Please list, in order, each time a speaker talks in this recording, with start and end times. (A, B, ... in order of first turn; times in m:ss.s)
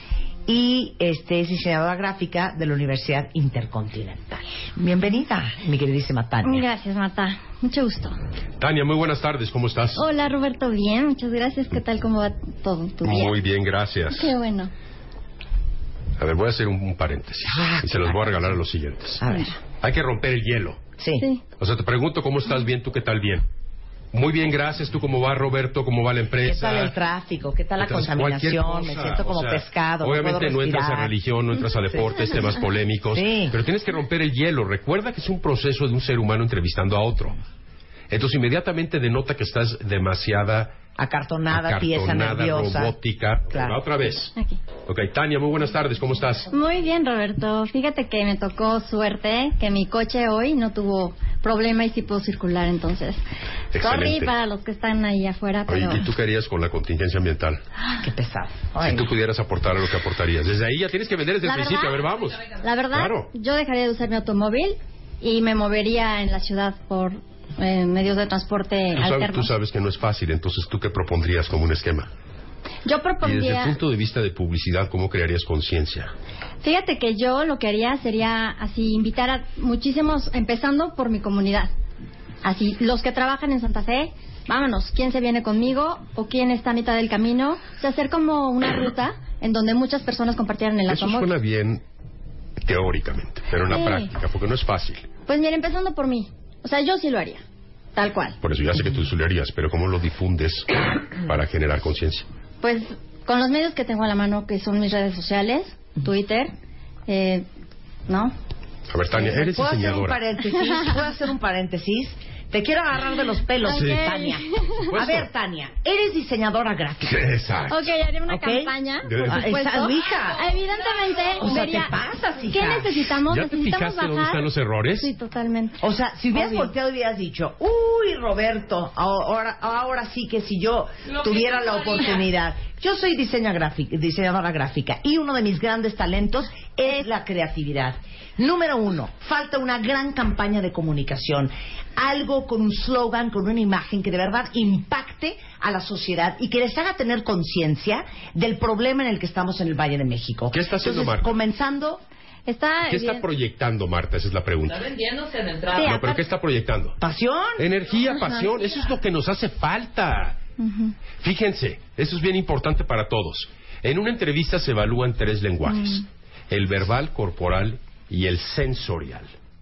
0:00.5-0:06.6 A
0:06.4-0:08.2 B
0:08.6-0:10.0 C
0:10.0-0:13.4 B
0:13.0-0:14.3 C
0:14.1-0:14.7 B
0:16.2-0:19.2 C
0:17.5-0:18.6 A
0:19.2-0:19.6 A
0:19.8-0:20.8 C
0:21.0-0:21.2 A
0:21.6-0:23.4 C
0:24.1-0:26.9 C
0:26.4-0:31.1 A
0:27.8-0:37.4 C
0:33.2-0:33.5 A
0:38.1-0:40.8 C
0:41.0-0:42.9 A
0:41.5-0:44.3 C
0:43.5-0:43.8 A
0:44.9-0:46.5 C
0:46.5-0:53.2 B
0:53.7-0:54.3 C
0:53.8-0:56.1 B
0:55.7-0:57.6 C
0:58.0-0:59.1 A
0:58.8-1:03.3 C
1:01.4-1:09.5 B
1:09.0-1:12.1 C
1:12.8-1:13.8 B
1:13.2-1:16.1 C
1:16.6-1:21.7 B
1:22.4-1:31.3 B
1:30.9-1:31.8 C
1:32.6-1:35.1 C
1:33.7-1:34.1 B
1:35.3-1:37.4 B
1:38.0-1:38.4 B
1:38.4-1:42.3 C
1:42.6-1:46.5 B
1:47.1-1:47.4 B
1:48.1-1:48.3 B
1:48.9-1:50.2 C
1:49.1-1:57.3 A
1:53.6-1:54.9 B
1:53.7-1:54.1 C
1:54.8-1:55.3 C
1:57.0-1:57.9 C
1:57.7-2:02.0 B
1:58.3-1:58.7 A
1:59.0-1:59.5 C
1:59.3-2:00.5 A
2:01.4-2:03.0 A
2:02.5-2:05.8 B
2:03.3-2:05.1 C
2:05.8-2:32.0 A
2:06.4-2:06.7 B
2:11.4-2:12.0 D
2:30.5-2:31.3 C
2:32.5-2:33.2 B
2:32.9-2:34.9 C
2:34.7-2:36.0 D
2:35.8-2:36.2 B
2:35.8-2:37.0 C
2:37.0-2:37.6 A
2:37.6-2:40.4 C
2:40.6-2:40.9 B
2:41.2-2:49.3 C
2:45.7-2:46.0 B